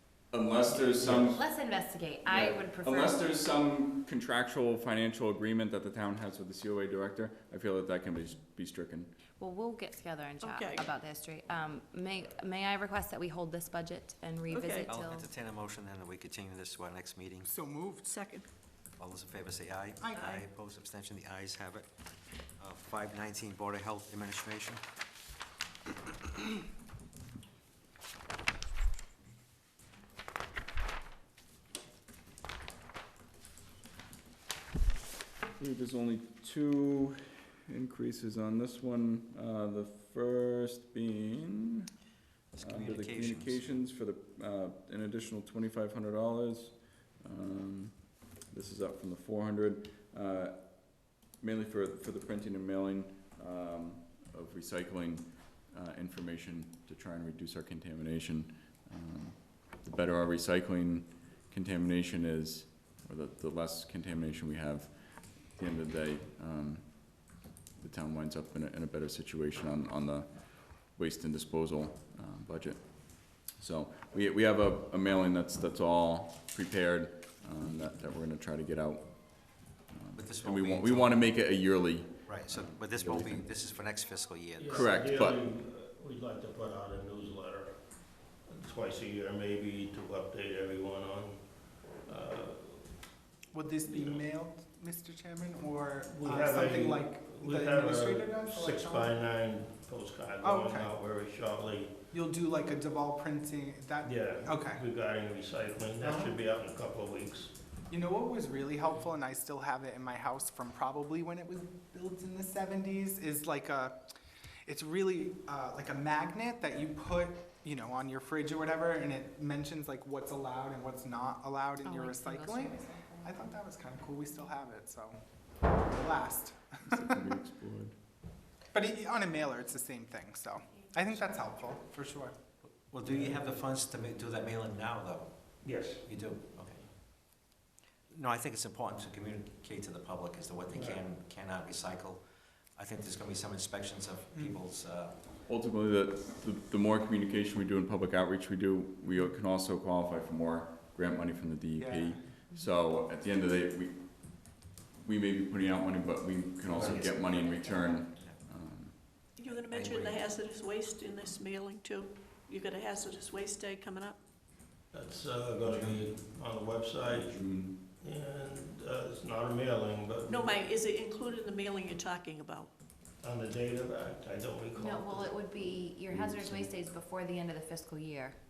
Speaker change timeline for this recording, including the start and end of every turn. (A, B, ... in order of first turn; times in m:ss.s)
0:00.3-0:01.4 A
0:00.7-0:01.4 B
0:01.3-0:03.4 C
0:02.3-0:09.2 A
0:09.4-0:15.3 C
0:10.4-0:10.9 D
0:14.5-0:14.9 D
0:14.8-0:17.5 E
0:17.4-0:18.1 F
0:18.0-0:18.5 D
0:19.0-0:21.9 E
0:20.0-0:20.3 F
0:20.1-0:20.4 D
0:22.6-0:24.8 E
0:35.6-0:41.8 A
0:42.5-0:43.8 E
0:42.6-1:23.5 A
1:20.1-1:21.4 E
1:22.2-1:25.1 E
1:24.6-1:33.1 B
1:24.7-1:25.4 A
1:33.5-1:39.2 F
1:33.8-1:34.2 B
1:36.1-1:42.0 B
1:40.4-1:40.9 F
1:42.1-1:44.8 F
1:44.0-1:47.5 B
1:46.0-1:46.4 F
1:47.9-1:54.1 F
1:54.7-2:05.2 F
2:01.8-2:03.5 C
2:05.7-2:07.2 F
2:06.9-2:08.0 A
2:08.7-2:12.4 F
2:12.7-2:16.9 E
2:13.1-2:13.4 B
2:15.6-2:16.0 B
2:18.1-2:22.2 E
2:20.7-2:21.0 B
2:22.8-2:25.4 E
2:25.5-2:39.4 A
2:31.8-2:32.3 F
2:36.6-2:37.1 B
2:36.8-2:38.2 C
2:38.2-2:38.4 E
2:39.4-2:44.2 D
2:39.4-2:40.3 E
2:44.9-2:47.4 B
2:45.6-2:46.1 E
2:47.0-2:47.8 A
2:47.9-2:50.6 B
2:50.2-2:52.7 D
2:53.2-2:55.8 B
2:54.8-2:58.4 C
2:56.0-2:56.7 A